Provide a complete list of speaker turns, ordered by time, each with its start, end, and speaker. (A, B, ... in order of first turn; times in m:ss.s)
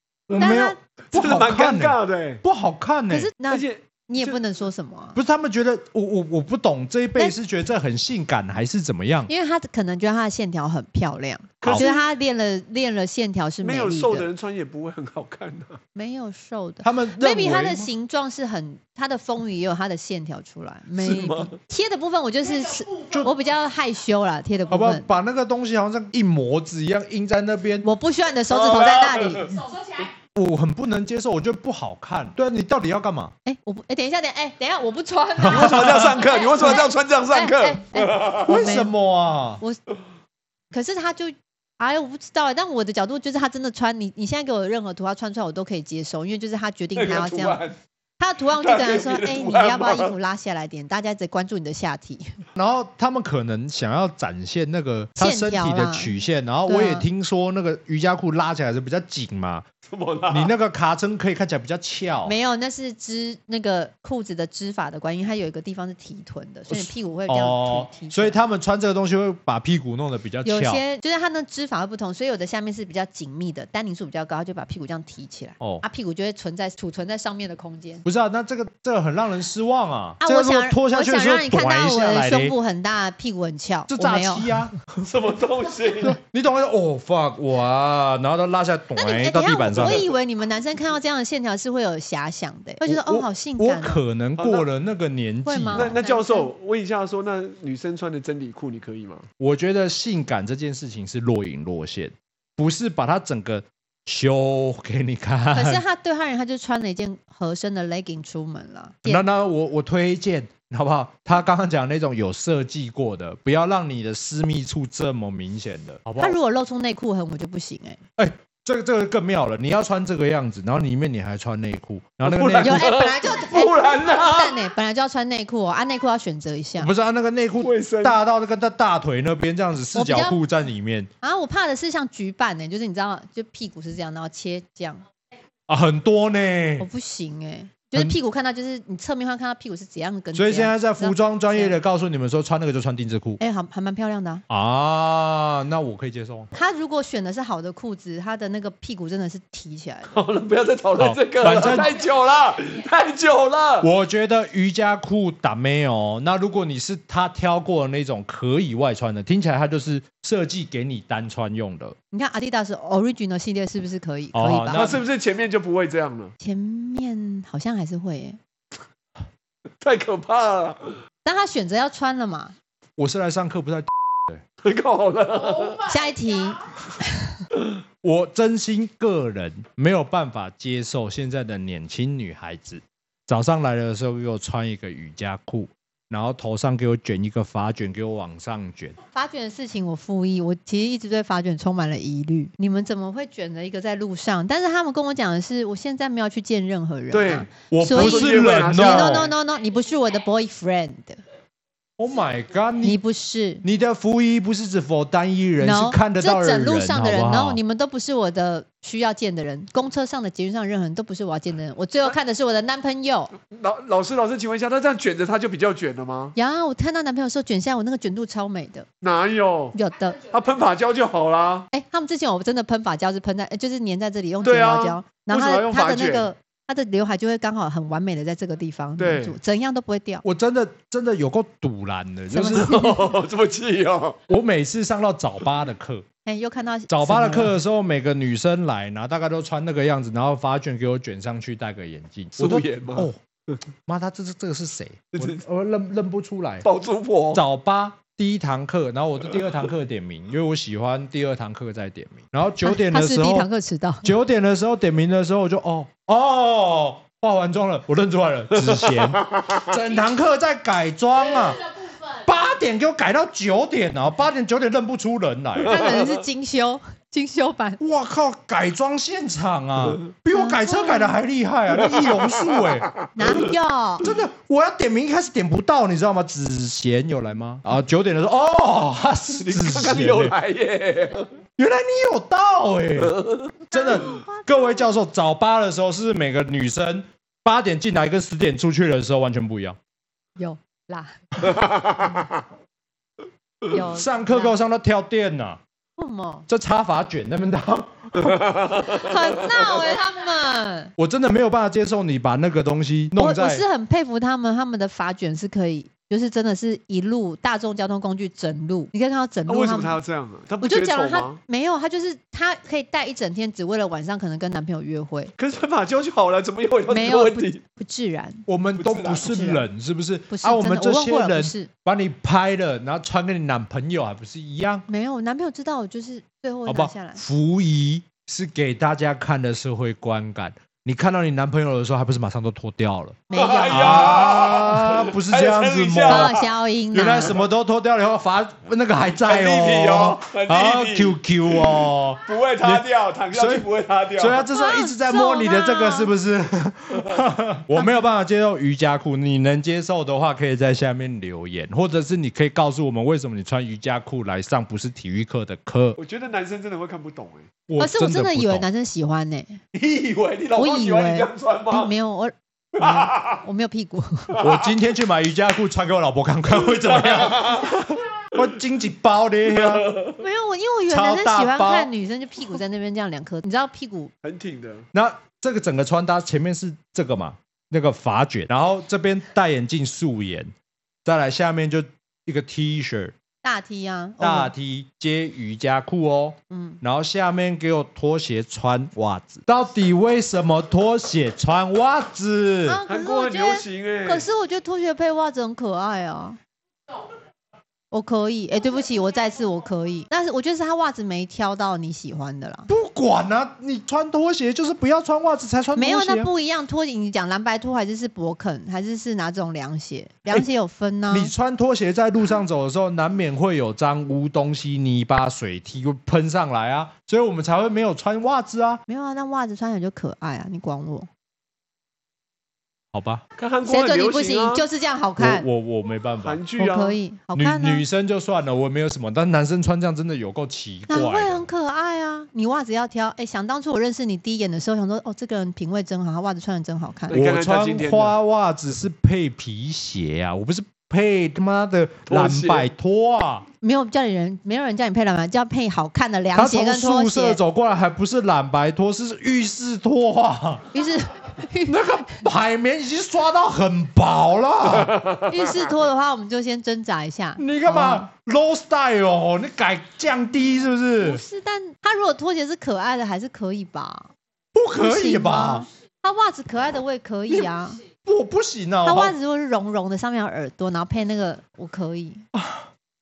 0:00.3-0:03.3 A
0:00.4-0:00.8 B
0:01.1-0:02.4 C
0:03.1-0:05.2 B
0:03.5-0:04.4 C
0:05.2-0:09.3 A
0:09.3-0:14.3 B
0:11.6-0:11.9 A
0:11.6-0:12.0 C
0:13.6-0:15.8 C
0:16.0-0:25.1 B
0:16.8-0:17.9 A
0:21.0-0:21.6 C
0:24.7-0:27.9 A
0:27.8-0:29.6 B
0:28.5-0:29.6 C
0:30.4-0:33.3 A
0:33.4-0:38.9 B
0:35.4-0:36.1 A
0:35.4-0:38.7 C
0:38.4-0:39.6 A
0:40.7-0:47.6 B
0:47.0-0:47.8 C
0:48.2-0:52.4 B
0:48.6-0:50.2 C
0:52.6-0:59.7 A
0:55.2-0:56.1 B
0:56.7-0:57.1 B
0:59.9-1:00.5 C
1:00.3-1:02.3 A
1:02.2-1:08.4 B
1:06.7-1:10.8 A
1:10.4-1:18.0 B
1:18.0-1:22.6 A
1:20.2-1:24.5 B
1:23.9-1:24.7 A
1:25.0-1:26.2 C
1:26.0-1:30.1 A
1:29.0-1:34.0 B
1:29.8-1:30.0 C
1:32.8-1:36.0 A
1:34.4-1:34.7 C
1:35.5-1:36.5 B
1:35.7-1:39.3 C
1:39.4-1:45.8 A
1:45.5-1:49.2 B
1:49.0-1:56.4 A
1:56.2-1:58.0 B
1:58.2-2:02.9 A
2:02.2-2:04.6 C
2:02.6-2:06.9 B
2:06.8-2:11.1 A
2:07.6-2:08.2 C
2:09.9-2:10.4 B
2:11.2-2:15.0 B
2:15.7-2:16.9 A
2:16.8-2:21.8 B
2:20.3-2:23.4 A
2:23.4-2:24.4 B
2:24.5-2:26.5 A
2:26.5-2:30.2 B
2:30.1-2:33.9 C
2:31.0-2:31.9 A
2:33.8-2:42.0 A
2:42.1-2:44.9 B
2:44.3-2:45.0 A
2:44.7-2:46.3 C
2:46.4-2:48.4 B
2:49.8-2:50.9 C
2:51.2-2:52.5 B
2:53.0-2:54.4 A
2:54.6-2:55.8 C
2:55.8-2:57.4 B
2:58.0-3:09.0 A
3:09.1-3:21.2 B
3:17.1-3:19.3 C
3:17.7-3:19.3 A
3:22.0-3:23.0 A
3:22.8-3:23.6 B
3:23.6-3:27.6 A
3:25.6-3:33.3 B
3:33.4-3:36.4 C
3:36.4-3:38.9 B
3:39.0-3:39.8 C
3:39.7-3:40.2 B
3:40.3-3:41.7 C
3:41.7-3:50.2 B
3:44.4-3:46.3 C
3:49.0-3:49.4 C
3:50.2-3:53.0 A
3:52.3-3:53.0 B
3:52.5-3:54.2 C
3:54.3-3:56.1 A
3:56.3-3:57.6 B
3:56.9-4:03.2 A
4:02.4-4:03.6 C
4:03.9-4:06.7 A
4:05.1-4:05.4 C
4:06.6-4:07.4 C
4:07.3-4:13.5 A
4:12.6-4:14.1 B
4:14.0-4:21.6 A
4:22.2-4:25.8 A
4:25.7-4:27.8 B
4:25.7-4:26.2 C
4:27.8-4:32.9 A
4:30.3-4:31.2 B
4:31.8-4:33.1 C
4:33.2-4:34.1 B
4:34.0-4:40.3 A
4:39.3-4:41.3 C
4:41.6-4:49.8 A
4:43.1-4:43.5 C
4:43.7-4:44.9 B
4:50.4-4:51.2 B
4:53.7-4:54.6 B
4:53.9-4:55.6 A
4:56.0-4:56.5 B
4:56.5-4:58.4 A
4:58.2-4:59.4 C
4:58.8-5:00.9 B
5:01.0-5:03.6 A
5:03.2-5:10.0 B
5:09.5-5:11.4 C
5:10.6-5:15.3 B
5:15.4-5:17.6 C
5:16.9-5:18.4 B
5:18.5-5:24.8 A
5:18.8-5:19.5 C
5:19.2-5:19.6 B
5:20.3-5:21.7 B
5:24.9-5:27.2 B
5:26.7-5:43.7 A
5:33.3-5:34.3 B
5:33.3-5:36.4 C
5:36.1-5:37.3 B
5:39.3-5:44.4 C
5:44.2-5:56.0 A
5:44.5-5:46.1 B
5:56.0-5:57.5 C
5:57.7-5:58.7 A
5:57.8-5:59.6 B
5:59.7-6:01.9 C
6:00.6-6:04.3 B
6:02.7-6:03.4 C
6:04.3-6:04.7 C
6:04.4-6:07.7 A
6:06.8-6:07.9 C
6:08.3-6:09.9 A
6:09.6-6:10.2 C
6:10.2-6:14.1 B
6:10.9-6:11.9 A
6:14.2-6:14.9 C
6:14.9-6:20.5 A
6:21.0-6:23.2 A
6:23.4-6:24.5 B
6:24.2-6:32.8 A
6:26.5-6:26.8 B
6:32.6-6:36.4 B
6:32.9-6:34.3 C
6:37.9-6:42.7 B
6:42.7-6:46.3 A
6:45.8-6:51.3 B
6:51.1-6:58.8 A
6:58.9-7:01.1 B
7:02.9-7:03.2 A
7:03.4-7:04.6 C
7:03.7-7:05.4 B
7:05.2-7:06.4 A
7:06.2-7:07.0 C
7:06.6-7:07.8 B
7:07.4-7:11.4 A
7:10.9-7:17.2 B
7:17.1-7:18.2 C
7:17.1-7:23.4 A
7:22.1-7:22.7 C
7:23.6-7:27.4 B
7:26.3-7:30.7 A
7:30.7-7:32.2 B
7:31.7-7:35.1 A
7:35.3-7:38.1 B
7:37.4-7:41.2 A
7:41.0-7:44.1 B
7:44.5-7:45.7 A
7:44.8-7:47.8 B
7:48.0-7:49.2 A
7:48.8-7:52.2 B
7:52.3-7:52.7 A